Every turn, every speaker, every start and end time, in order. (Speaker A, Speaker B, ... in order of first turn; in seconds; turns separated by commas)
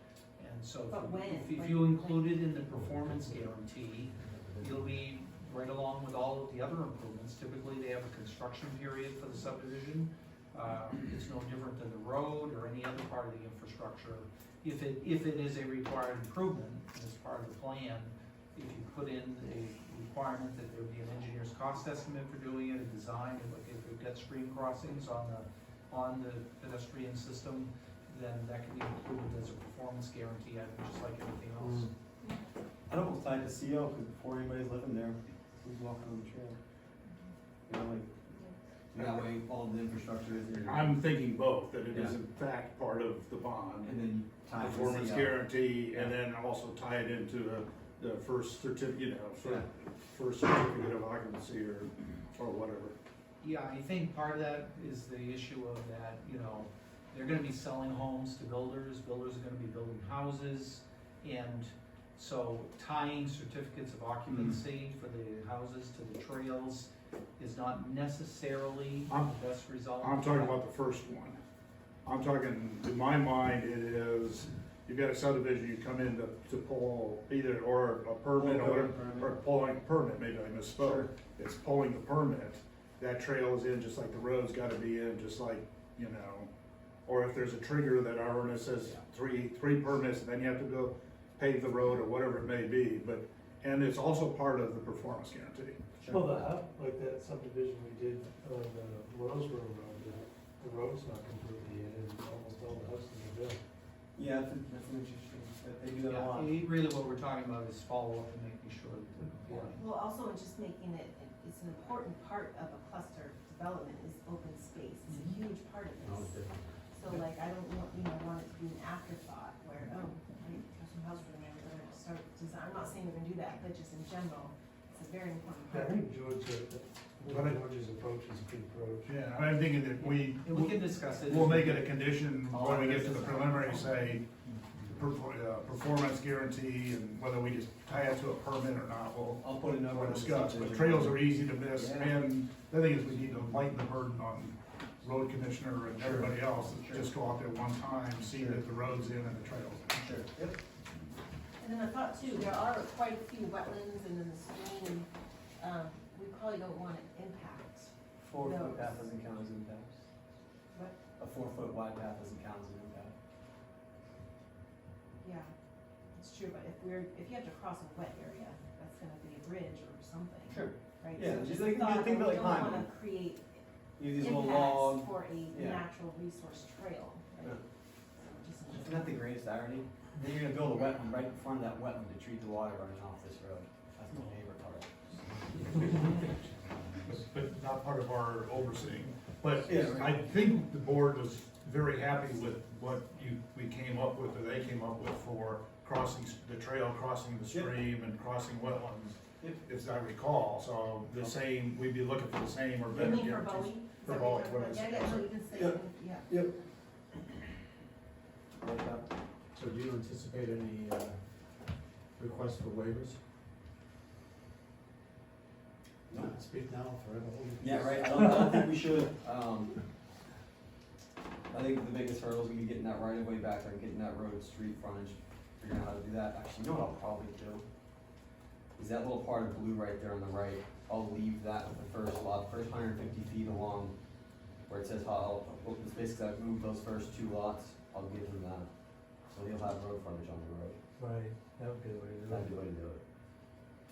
Speaker A: 0.4-31.9, Speaker B: 0.9-2.3, Speaker C: 2.7-3.5, Speaker C: 4.1-4.9, Speaker D: 31.6-31.9, Speaker E: 32.9-36.6, Speaker E: 37.7-38.2, Speaker E: 38.9-41.0, Speaker F: 39.0-39.3, Speaker F: 40.6-52.9, Speaker E: 41.9-42.1, Speaker E: 43.8-46.1, Speaker E: 49.4-49.6, Speaker A: 53.4-70.6, Speaker F: 64.3-64.6, Speaker F: 70.0-71.4, Speaker F: 72.0-86.5, Speaker E: 78.3-79.4, Speaker E: 80.8-81.1, Speaker F: 87.0-95.8, Speaker E: 96.0-96.4, Speaker D: 96.1-103.6, Speaker E: 104.2-106.6, Speaker A: 106.1-109.9, Speaker B: 109.8-126.0, Speaker A: 115.1-115.4, Speaker C: 116.0-116.5, Speaker D: 125.7-129.1, Speaker F: 127.3-127.6, Speaker F: 129.1-134.3, Speaker A: 130.0-131.9, Speaker A: 132.5-133.9, Speaker F: 134.8-149.9, Speaker E: 139.4-142.2, Speaker E: 146.0-147.1, Speaker E: 148.3-148.6, Speaker E: 149.9-150.6, Speaker B: 151.6-155.1, Speaker B: 155.6-159.1, Speaker E: 158.2-160.0, Speaker B: 160.7-161.0, Speaker E: 161.2-163.1, Speaker B: 165.2-165.5, Speaker B: 166.1-173.6, Speaker E: 170.5-172.9, Speaker E: 174.0-175.8, Speaker B: 174.1-177.6, Speaker B: 178.1-179.2, Speaker E: 178.7-186.0, Speaker F: 187.1-205.3, Speaker E: 189.6-190.2, Speaker B: 202.9-206.3, Speaker E: 205.5-206.5, Speaker E: 208.6-209.1, Speaker C: 209.6-211.2, Speaker C: 212.2-213.2, Speaker E: 216.1-216.3, Speaker C: 216.2-218.0, Speaker E: 217.6-219.8, Speaker E: 221.5-227.6, Speaker E: 228.8-233.9, Speaker E: 234.7-238.7, Speaker E: 239.3-240.8, Speaker D: 241.0-242.5, Speaker E: 242.3-243.0